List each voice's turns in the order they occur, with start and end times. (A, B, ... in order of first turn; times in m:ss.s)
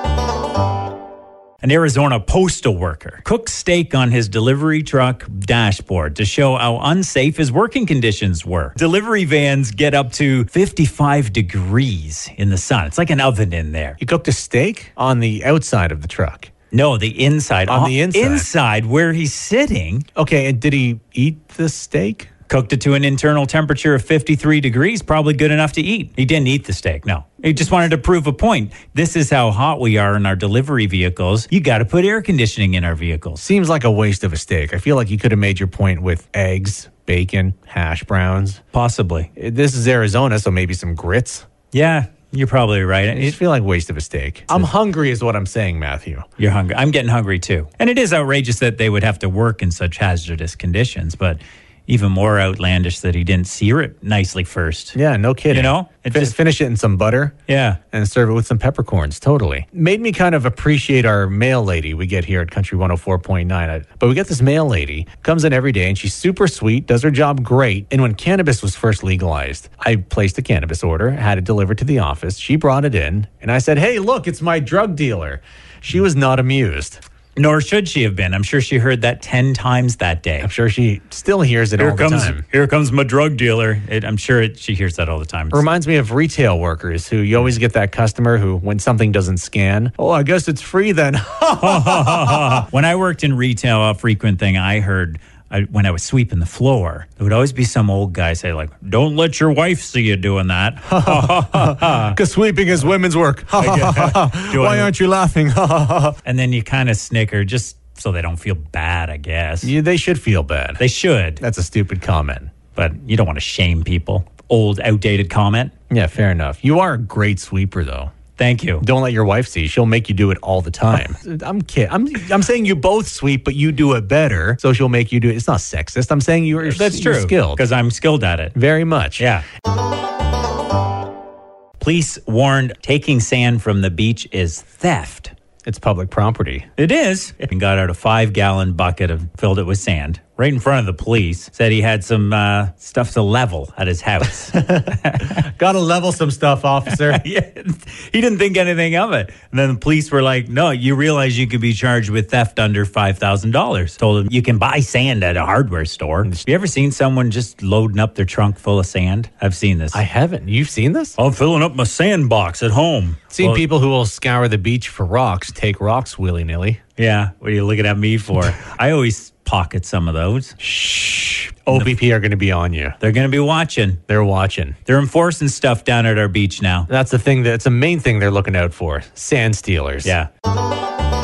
0:01.6-0:14.0 A
0:14.0-0:16.5 B
0:16.7-0:20.0 A
0:17.7-0:18.5 B
0:20.2-0:22.3 B
0:22.5-0:33.4 A
0:33.4-0:38.6 B
0:38.7-0:39.3 A
0:39.4-0:41.4 B
0:41.7-0:43.4 A
0:43.1-0:46.3 B
0:46.4-0:55.0 A
0:54.9-0:57.3 B
0:55.5-0:56.3 A
0:57.5-0:57.8 A
0:57.9-1:17.0 B
1:17.4-1:20.5 A
1:20.4-1:22.4 B
1:21.8-1:25.6 A
1:25.5-1:32.6 B
1:31.6-1:42.2 A
1:40.9-1:46.2 B
1:43.6-1:44.9 A
1:46.2-1:49.7 A
1:49.6-1:50.8 B
1:50.8-1:51.4 A
1:51.4-1:52.5 B
1:52.7-1:55.7 A
1:55.9-1:58.1 B
1:58.4-1:58.8 A
1:58.8-2:07.6 B
2:06.6-2:08.6 A
2:08.5-2:09.2 B
2:09.2-2:09.4 A
2:11.8-2:15.3 A
2:15.6-2:16.7 B
2:16.8-2:25.4 A
2:24.5-2:27.2 B
2:27.0-2:40.0 A
2:39.9-2:41.2 B
2:41.2-2:43.6 A
2:43.3-2:46.8 B
2:47.0-2:50.6 A
2:50.6-2:53.0 B
2:53.0-2:54.0 A
2:54.1-2:54.8 B
2:54.9-2:56.9 A
2:56.9-3:00.1 B